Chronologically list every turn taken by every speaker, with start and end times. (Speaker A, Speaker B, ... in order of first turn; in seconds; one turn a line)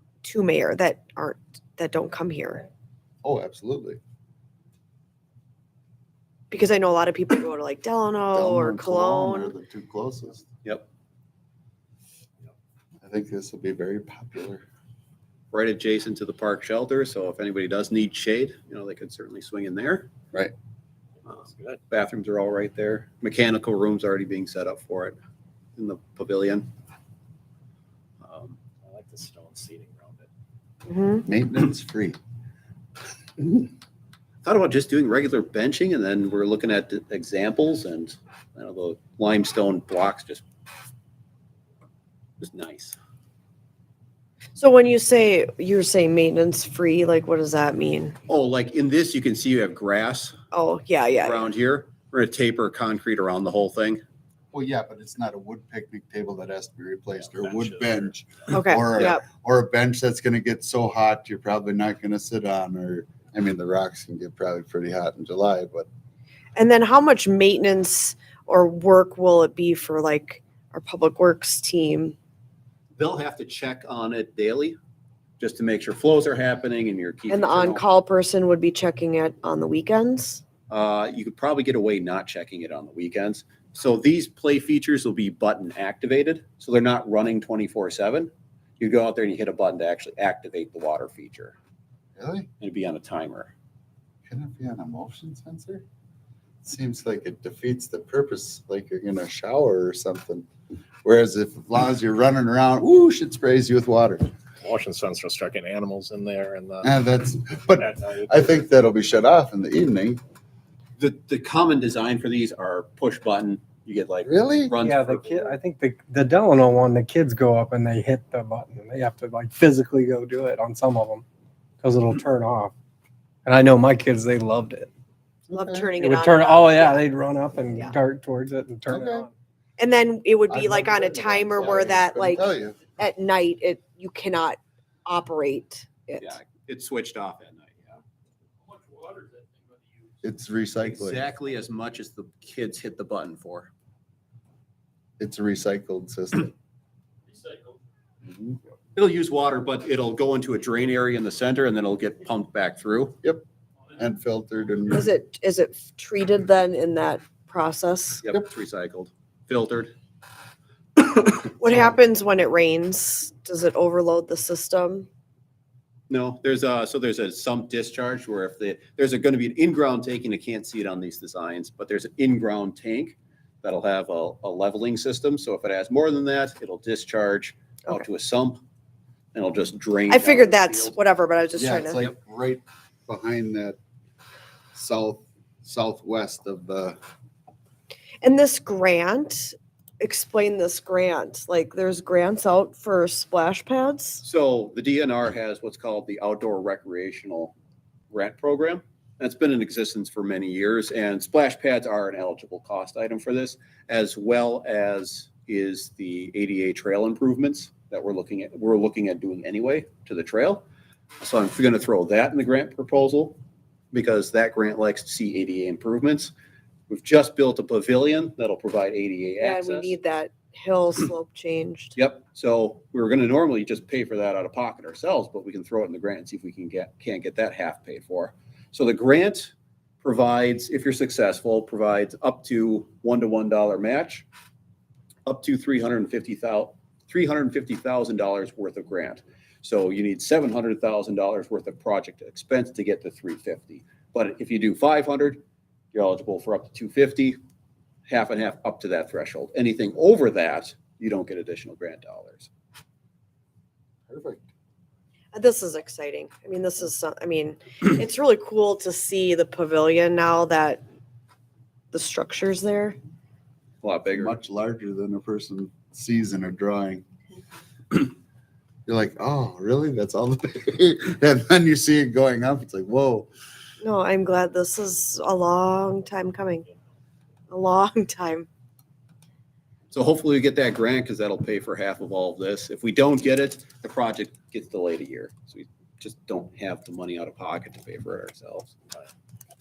Speaker A: 0.2-2.7
Speaker B: 3.2-4.0
Speaker A: 6.5-9.5
Speaker B: 8.3-10.5
Speaker B: 13.0-14.6
Speaker C: 15.5-20.1
Speaker C: 21.3-25.2
Speaker D: 21.3-21.8
Speaker C: 25.8-26.7
Speaker C: 28.2-28.6
Speaker D: 28.8-30.3
Speaker A: 30.9-31.2
Speaker B: 31.2-32.2
Speaker C: 34.4-40.4
Speaker C: 42.4-43.0
Speaker A: 44.6-48.2
Speaker C: 48.3-50.4
Speaker A: 50.5-51.5
Speaker C: 51.2-54.0
Speaker B: 54.5-65.9
Speaker D: 57.3-58.0
Speaker A: 58.5-59.2
Speaker A: 66.6-72.2
Speaker C: 73.0-74.8
Speaker C: 75.4-77.8
Speaker A: 77.3-80.4
Speaker C: 80.7-91.6
Speaker B: 92.2-92.5
Speaker C: 92.6-93.5
Speaker B: 94.3-95.8
Speaker B: 96.6-100.5
Speaker B: 101.0-104.3
Speaker D: 104.6-106.9
Speaker B: 106.8-110.2
Speaker D: 107.8-108.5
Speaker C: 111.0-115.6
Speaker B: 114.2-114.7
Speaker E: 114.8-121.2
Speaker E: 121.8-122.7
Speaker E: 123.5-124.9
Speaker B: 125.5-125.9
Speaker A: 125.5-127.1
Speaker E: 126.0-129.3
Speaker A: 127.6-127.9
Speaker B: 128.9-129.2
Speaker A: 129.8-136.4
Speaker B: 130.5-132.8
Speaker C: 136.2-138.0
Speaker B: 140.2-141.2
Speaker C: 140.8-143.7
Speaker B: 145.2-146.5
Speaker C: 148.9-153.2
Speaker B: 154.0-155.1
Speaker A: 154.9-158.2
Speaker C: 158.2-159.9
Speaker A: 161.6-165.1
Speaker C: 166.1-178.6
Speaker C: 179.3-180.9
Speaker A: 180.1-182.0
Speaker B: 181.6-183.8
Speaker B: 184.7-187.0
Speaker A: 188.2-194.2
Speaker C: 194.2-197.5
Speaker C: 198.1-210.7
Speaker C: 211.2-213.4
Speaker C: 213.9-216.3
Speaker C: 216.9-219.9
Speaker A: 219.4-221.9
Speaker C: 222.0-234.3
Speaker C: 235.3-245.4
Speaker C: 245.9-247.4
Speaker C: 248.1-252.5
Speaker B: 254.1-254.4
Speaker A: 255.3-260.8
Speaker A: 261.9-263.0
Speaker C: 263.8-264.4
Speaker B: 264.1-267.1
Speaker B: 268.9-273.3
Speaker A: 273.8-276.7
Speaker A: 277.5-278.5
Speaker C: 279.9-288.8